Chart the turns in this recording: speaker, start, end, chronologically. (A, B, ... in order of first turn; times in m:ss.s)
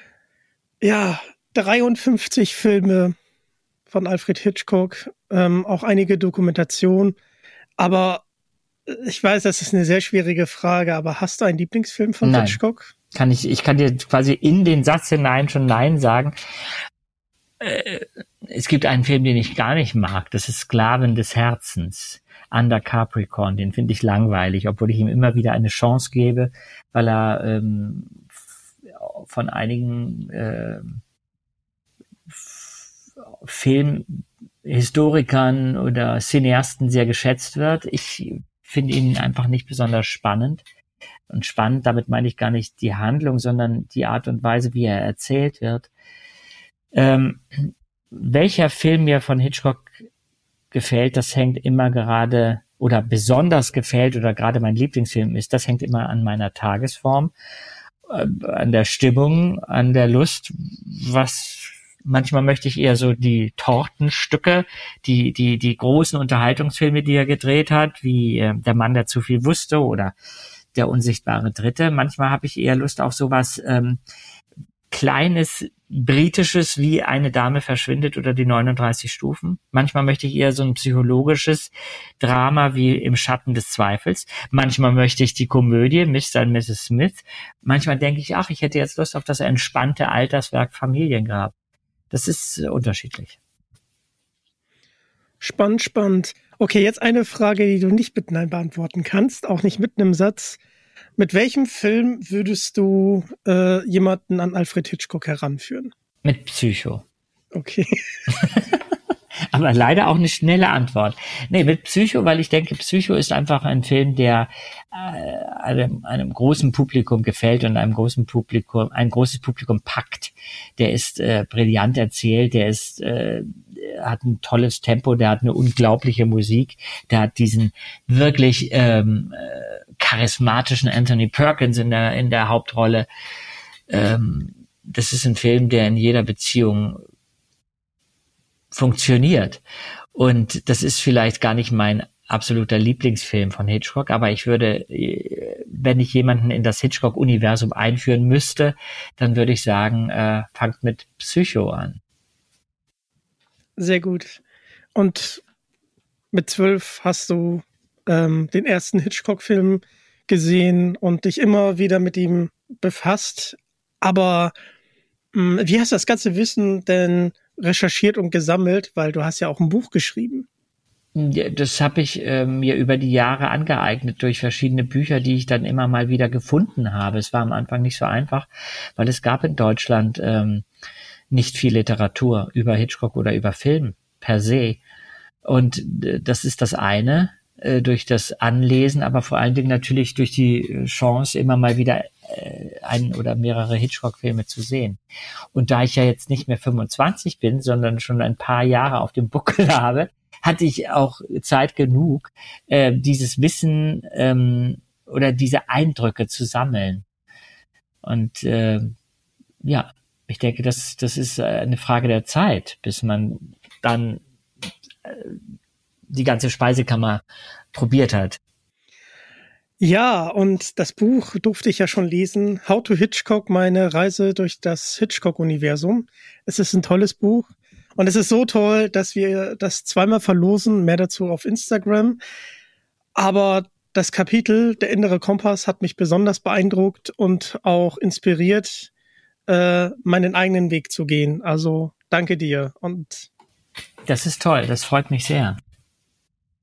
0:00.8-0:03.1 A
0:03.9-0:07.2 A
0:07.8-0:08.2 A
0:08.9-0:12.9 A
0:12.2-0:12.6 B
0:13.1-0:16.4 B
0:17.6-0:28.2 B
0:28.9-0:31.0 B
0:32.3-0:40.6 B
0:41.3-0:45.9 B
0:46.9-0:50.0 B
0:50.7-0:57.3 B
0:58.1-1:10.1 B
1:10.7-1:14.0 B
1:14.9-1:31.5 B
1:32.1-1:33.4 B
1:35.4-1:40.6 A
1:41.2-1:45.9 A
1:46.2-1:47.0 B
1:47.5-1:48.0 A
1:48.3-1:48.8 B
1:49.5-2:13.1 B
2:13.9-2:17.0 B
2:18.7-2:19.6 B
2:20.1-2:32.0 B
2:33.8-2:34.4 A
2:34.9-2:35.4 A
2:36.3-2:44.5 A
2:45.3-2:50.5 A
2:51.1-3:00.6 B
3:01.3-3:04.8 B
3:05.4-3:15.0 B
3:15.5-3:27.0 B
3:28.0-3:28.9 B
3:29.6-3:34.2 B
3:35.0-3:35.4 B
3:36.1-3:38.4 B
3:39.8-3:52.2 A
3:53.2-3:58.9 A
3:59.5-4:03.3 A
4:04.1-4:05.6 B